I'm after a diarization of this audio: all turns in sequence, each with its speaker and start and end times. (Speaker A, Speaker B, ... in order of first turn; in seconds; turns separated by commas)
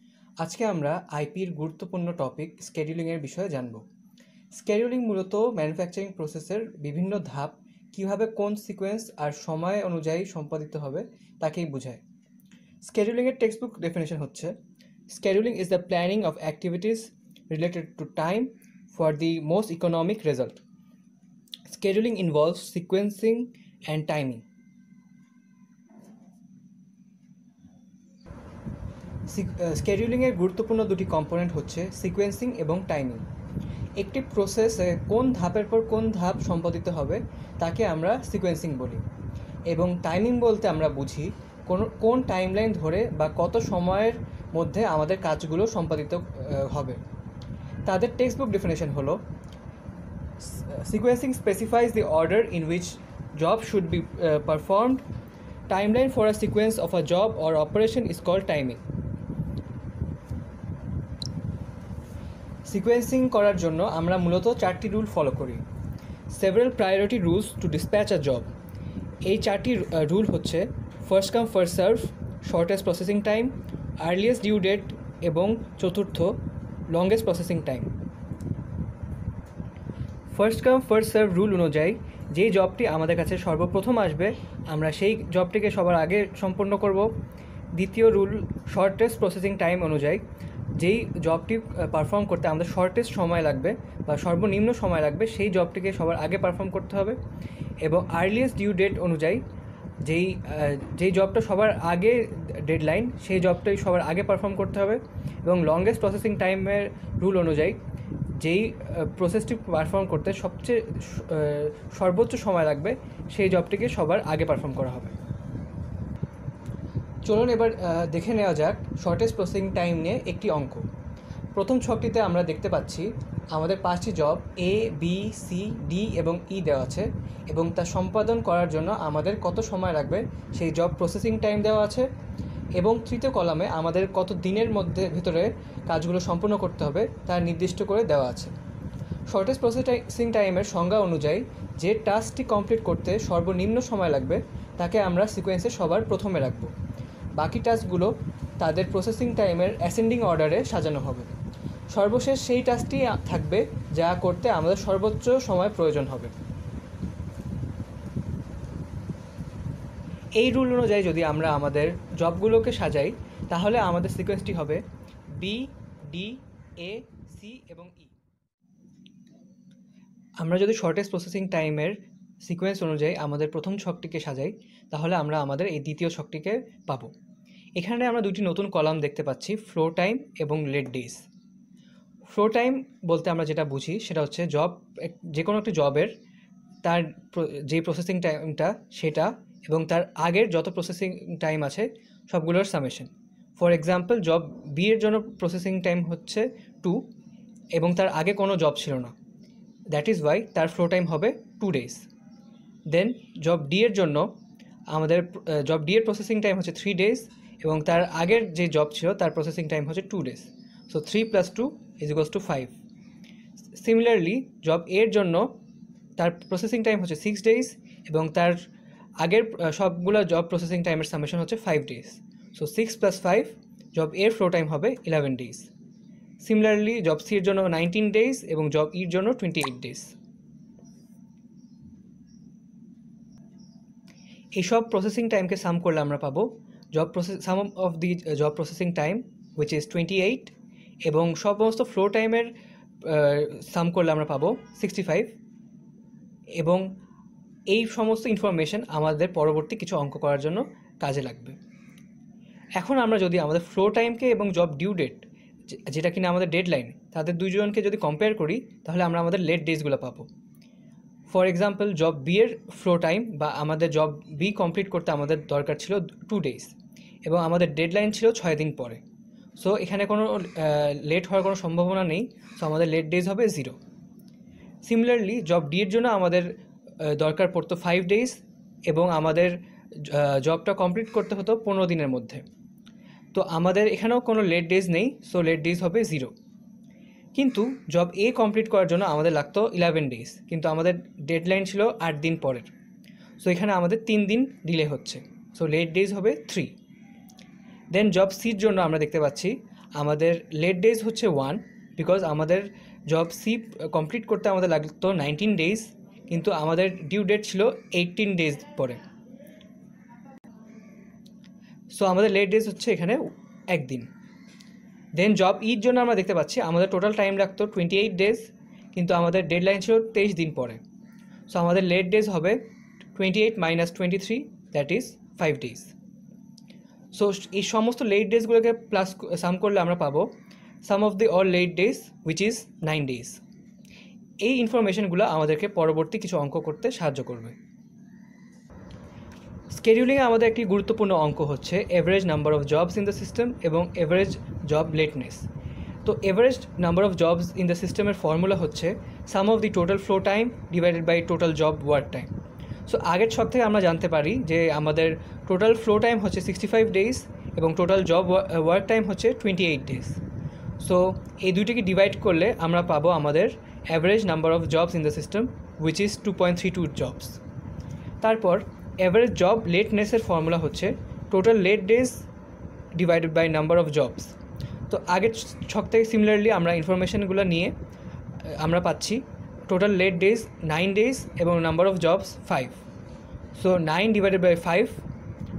Speaker A: 0.4-3.8, Speaker A: 4.5-12.0, Speaker A: 12.8-14.6, Speaker A: 15.1-20.6, Speaker A: 21.7-24.4, Speaker A: 29.3-33.2, Speaker A: 34.0-39.0, Speaker A: 39.7-47.0, Speaker A: 47.9-49.2, Speaker A: 50.4-55.0, Speaker A: 55.7-58.8, Speaker A: 62.6-65.6, Speaker A: 66.3-68.5, Speaker A: 69.2-76.4, Speaker A: 76.9-77.9, Speaker A: 80.3-87.1, Speaker A: 87.7-90.2, Speaker A: 90.8-97.2, Speaker A: 97.8-99.4, Speaker A: 100.0-107.8, Speaker A: 108.4-115.1, Speaker A: 117.2-120.9, Speaker A: 121.5-132.1, Speaker A: 132.8-138.5, Speaker A: 139.3-146.7, Speaker A: 147.4-151.3, Speaker A: 151.9-156.3, Speaker A: 160.4-164.8, Speaker A: 165.4-168.2, Speaker A: 170.4-177.1, Speaker A: 177.8-181.2, Speaker A: 182.3-186.1, Speaker A: 186.8-197.1, Speaker A: 197.7-199.1, Speaker A: 199.9-202.1, Speaker A: 202.9-204.3, Speaker A: 204.9-212.8, Speaker A: 213.7-215.5, Speaker A: 216.2-218.7, Speaker A: 219.2-225.7, Speaker A: 226.4-230.1, Speaker A: 234.6-242.5, Speaker A: 243.0-245.3, Speaker A: 246.6-246.9, Speaker A: 247.7-251.6, Speaker A: 252.8-260.3, Speaker A: 261.3-269.0, Speaker A: 269.6-273.8, Speaker A: 274.8-282.4, Speaker A: 283.3-286.3, Speaker A: 287.3-292.7, Speaker A: 293.4-296.7, Speaker A: 297.9-309.0, Speaker A: 311.9-314.1, Speaker A: 315.1-320.8, Speaker A: 321.5-322.6, Speaker A: 323.1-325.9, Speaker A: 327.1-330.3, Speaker A: 330.8-333.4, Speaker A: 334.4-337.6, Speaker A: 339.7-345.5, Speaker A: 346.1-352.3, Speaker A: 352.9-360.2, Speaker A: 360.8-367.4, Speaker A: 368.2-372.2, Speaker A: 373.0-374.4, Speaker A: 374.9-377.7, Speaker A: 378.4-382.8, Speaker A: 383.6-385.0